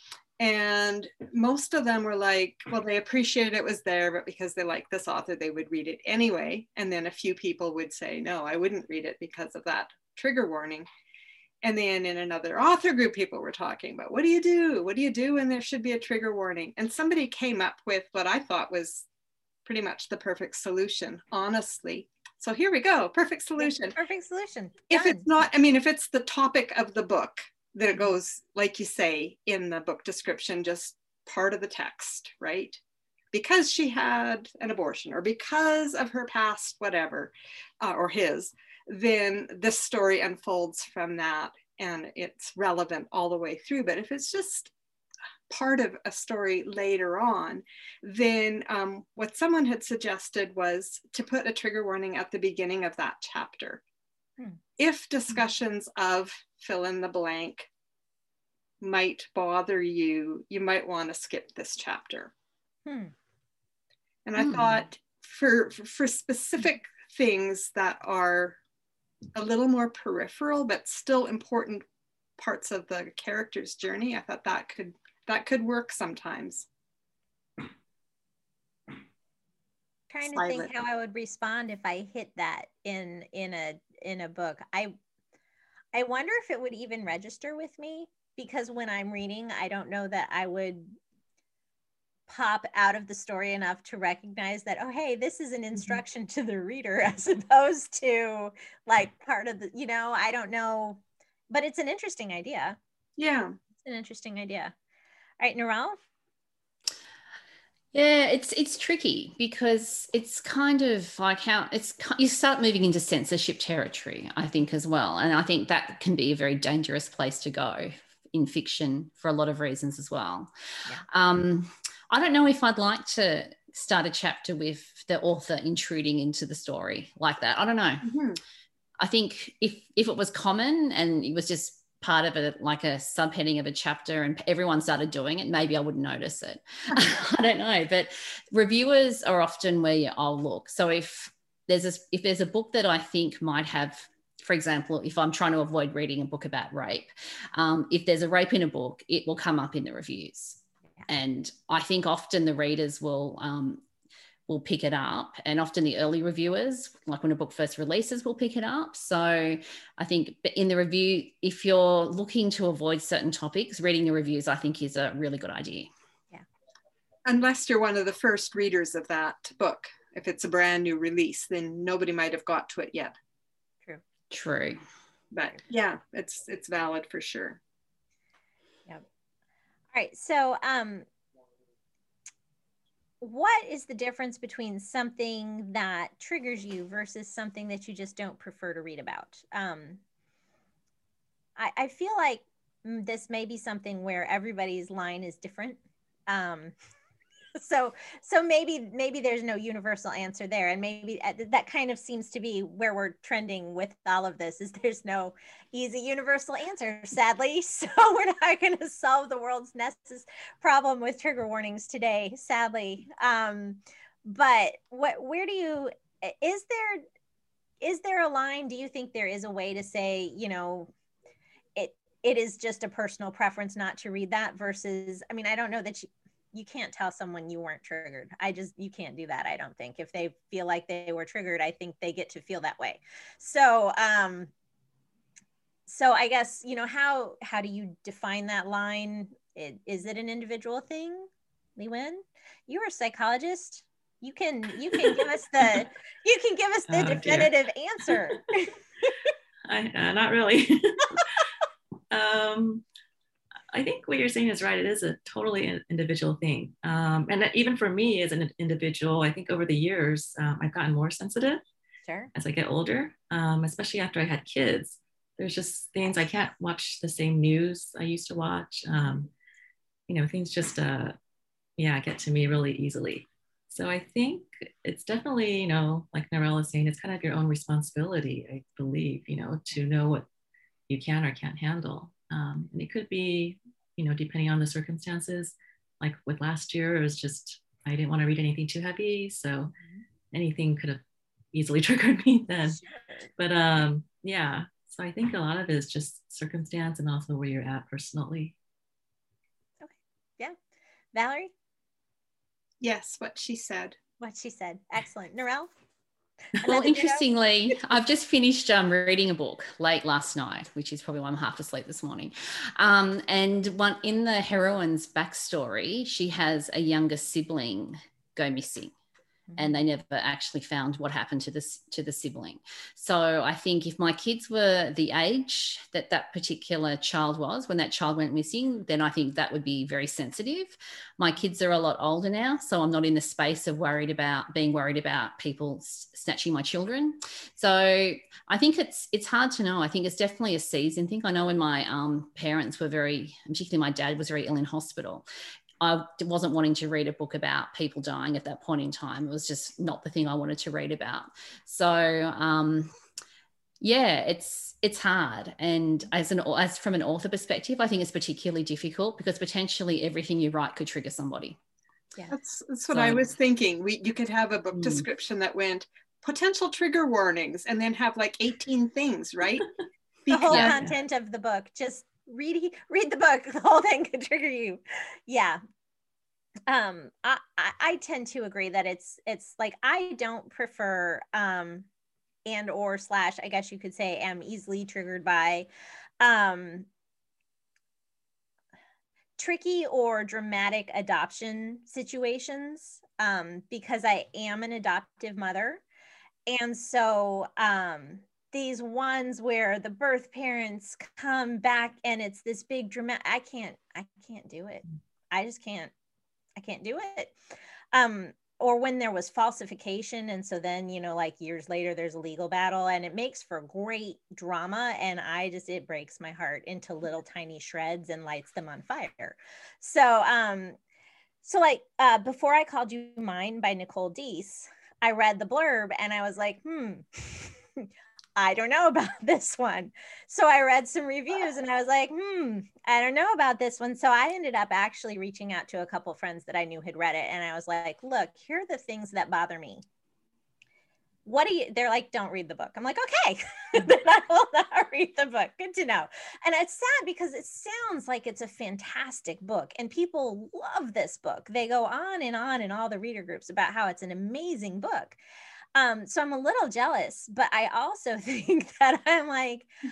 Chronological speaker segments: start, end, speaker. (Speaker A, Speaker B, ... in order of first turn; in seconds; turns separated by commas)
Speaker A: 0.4-10.9, Speaker A: 11.6-19.1, Speaker A: 19.6-24.0, Speaker B: 23.6-25.3, Speaker A: 24.9-32.8, Speaker A: 33.3-44.7, Speaker A: 45.5-53.8, Speaker A: 54.8-57.7, Speaker A: 58.8-62.3, Speaker B: 62.9-63.1, Speaker A: 64.2-68.6, Speaker A: 69.3-71.8, Speaker A: 72.4-76.7, Speaker B: 80.1-84.9, Speaker A: 80.2-80.7, Speaker B: 85.9-91.0, Speaker B: 92.3-102.8, Speaker A: 103.2-103.5, Speaker B: 103.8-104.7, Speaker B: 105.4-106.0, Speaker C: 107.9-120.5, Speaker C: 121.1-128.1, Speaker A: 128.0-128.4, Speaker C: 129.0-153.8, Speaker C: 154.5-165.9, Speaker A: 167.2-173.1, Speaker C: 174.3-174.8, Speaker A: 175.3-177.6, Speaker B: 179.9-181.1, Speaker B: 183.2-190.0, Speaker B: 191.6-196.7, Speaker B: 197.6-217.0, Speaker B: 217.8-220.9, Speaker B: 221.8-234.5, Speaker B: 235.9-249.1, Speaker D: 246.9-247.5, Speaker D: 249.7-251.4, Speaker D: 252.1-252.8, Speaker D: 253.7-261.6, Speaker B: 262.0-262.3, Speaker D: 262.3-269.3, Speaker D: 270.1-271.1, Speaker D: 271.8-280.2, Speaker D: 280.9-289.7, Speaker D: 290.3-291.0, Speaker D: 291.5-292.8, Speaker B: 292.8-293.3, Speaker D: 293.4-298.5, Speaker B: 299.8-300.6, Speaker B: 301.1-301.5, Speaker A: 302.8-304.0, Speaker B: 304.2-305.7, Speaker B: 306.6-307.2, Speaker C: 306.6-318.9, Speaker B: 319.5-319.7, Speaker C: 319.6-345.2, Speaker C: 345.8-352.9, Speaker C: 353.8-361.6, Speaker A: 362.3-369.7, Speaker C: 362.9-363.3, Speaker C: 364.7-365.1, Speaker A: 370.2-370.8, Speaker B: 370.3-375.6, Speaker C: 370.5-370.7, Speaker B: 376.7-381.9, Speaker B: 382.4-385.7, Speaker B: 386.2-386.9, Speaker B: 389.4-395.8, Speaker B: 396.5-405.9, Speaker B: 406.6-407.3, Speaker B: 407.9-420.8, Speaker B: 421.4-439.8, Speaker B: 441.2-455.2, Speaker B: 455.7-459.7